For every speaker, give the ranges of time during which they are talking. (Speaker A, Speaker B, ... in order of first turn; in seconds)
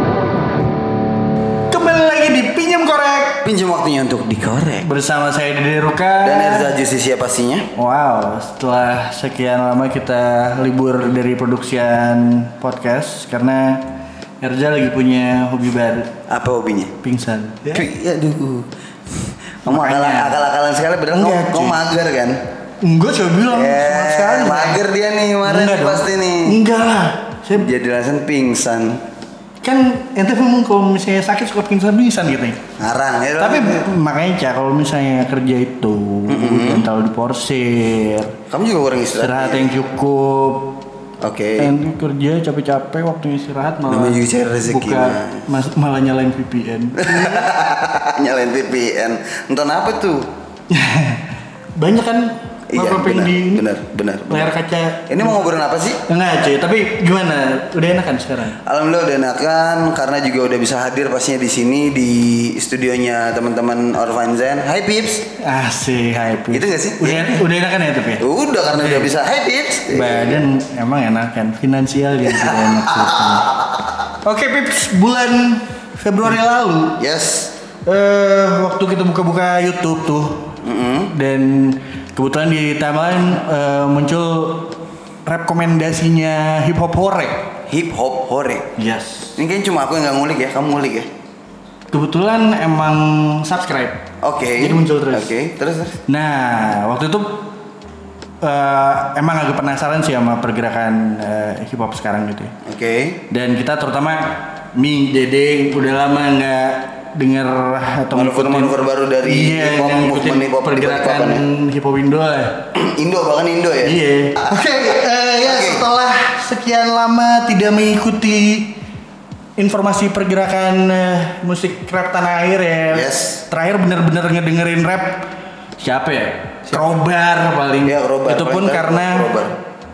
Speaker A: 1.7-3.5, 4.8-6.8, 7.8-13.9, 14.4-16.1, 17.0-17.9, 19.6-20.4, 21.1-21.8, 22.8-24.8, 25.4-27.7, 29.6-32.6, 33.4-38.4, 39.2-40.8, 41.6-47.5, 50.7-53.7, 54.3-58.6, 65.4-69.1, 69.9-73.6, 74.2-77.0, 77.9-87.5, 88.8-89.4, 91.9-94.1, 94.6-95.3, 96.1-97.5, 98.4-102.6, 103.3-112.7, 113.8-118.8, 119.6-129.3
Speaker B: 3.4-4.9, 6.2-7.7, 16.3-16.9, 17.7-22.4, 23.5-26.6, 27.6-29.0, 32.8-33.9, 36.3-36.9, 38.5-39.7, 41.2-41.8, 43.9-45.5, 47.0-50.3, 52.7-54.5, 55.1-56.0, 58.6-65.3, 66.5-67.4, 68.2-70.4, 72.3-73.9, 77.0-77.5, 80.6-81.1, 87.7-88.7, 89.4-91.1, 94.2-96.0, 102.6-103.2, 108.1-111.5, 112.7-114.6, 115.4-115.8, 122.9-123.4, 127.8-129.6